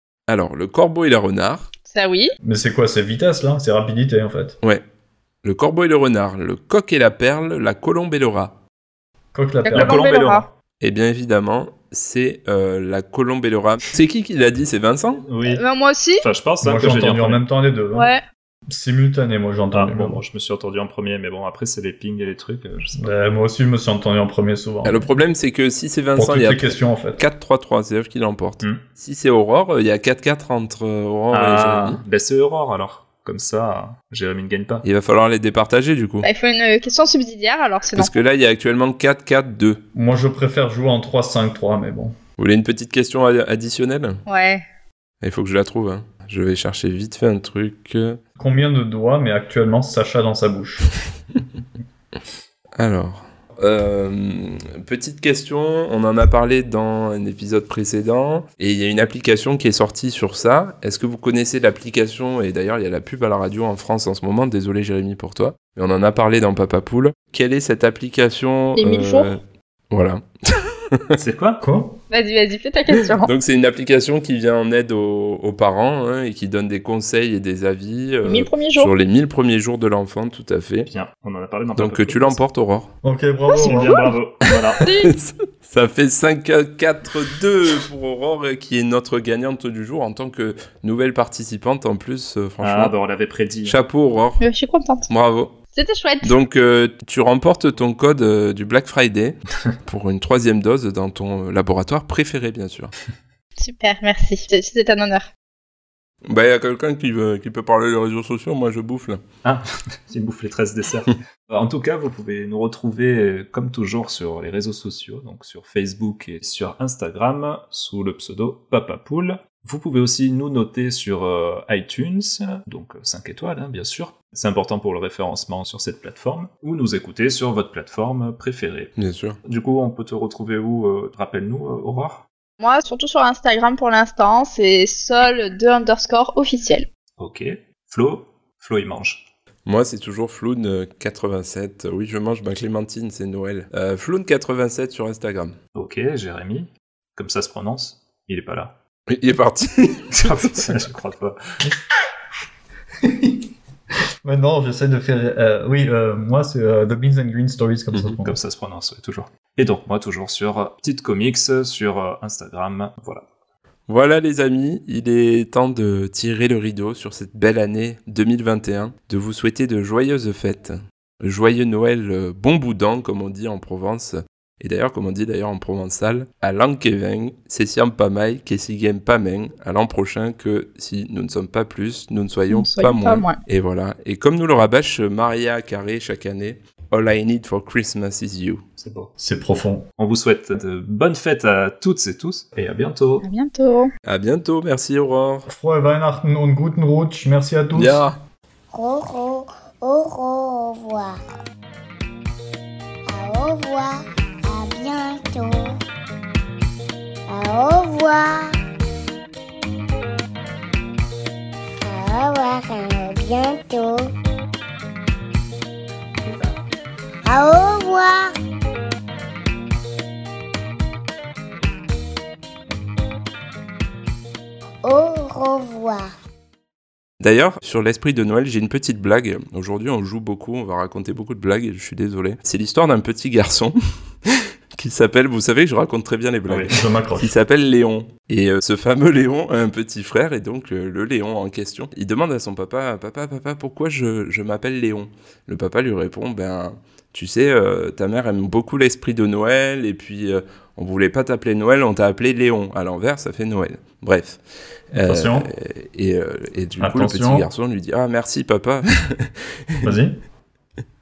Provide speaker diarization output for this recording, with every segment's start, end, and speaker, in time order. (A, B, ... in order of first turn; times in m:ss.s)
0:00.3-0:01.7 A
0:01.8-0:02.3 B
0:02.4-0:04.6 C
0:05.4-0:08.6 A
0:09.3-0:10.0 C
0:09.6-0:10.4 B
0:09.7-0:10.4 D
0:10.8-0:15.3 A
0:15.3-0:15.6 D
0:15.4-0:16.2 B
0:16.2-0:17.4 D
0:16.6-0:18.1 C
0:17.9-0:18.2 B
0:18.7-0:20.2 C
0:19.7-0:23.1 D
0:23.0-0:25.0 C
0:24.8-0:32.0 A
0:26.2-0:27.2 C
0:31.3-0:34.8 D
0:34.8-0:36.3 A
0:36.2-0:38.1 B
0:37.9-0:39.8 A
0:39.9-0:42.2 C
0:42.4-0:44.2 A
0:44.3-0:44.6 B
0:45.2-0:48.2 A
0:48.4-0:50.8 C
0:52.8-1:09.4 A
1:08.8-1:09.3 B
1:09.9-1:11.0 A
1:11.2-1:11.6 D
1:11.6-1:12.0 C
1:12.1-1:13.3 B
1:13.2-1:20.9 A
1:18.2-1:18.9 B
1:20.9-1:22.4 D
1:21.8-1:22.9 A
1:23.0-1:24.1 C
1:23.6-1:24.8 D
1:24.8-1:32.9 A
1:24.8-1:25.1 B
1:32.6-1:33.8 D
1:33.6-1:34.4 A
1:34.4-1:35.1 B
1:35.1-1:35.6 A
1:35.7-1:36.3 B
1:36.2-1:42.9 A
1:43.6-1:45.3 B
1:46.3-1:49.2 A
1:49.4-2:12.2 D
2:09.0-2:09.4 A
2:12.6-2:16.9 B
2:17.2-2:19.2 D
2:19.6-2:25.6 A
2:25.7-2:28.7 D
2:29.1-2:30.8 A
2:30.1-2:31.4 D
2:33.0-2:33.3 C
2:34.2-2:38.4 C
2:38.2-2:43.2 D
2:43.9-3:08.6 A
3:02.5-3:03.4 B
3:08.8-3:09.1 D
3:09.2-3:09.9 C
3:10.0-3:13.2 D
3:13.2-3:13.9 B
3:14.0-3:15.4 A
3:15.5-3:18.0 C
3:17.7-3:18.2 A
3:18.7-3:21.2 E
3:23.1-3:25.8 E
3:27.3-3:28.6 E
3:31.8-3:34.1 E
3:37.2-3:38.3 E
3:44.8-3:46.1 E
3:47.2-4:14.4 A
3:56.7-3:57.3 C
4:14.9-4:19.9 A
4:14.9-4:15.5 C
4:16.8-4:17.5 C
4:19.8-4:20.2 C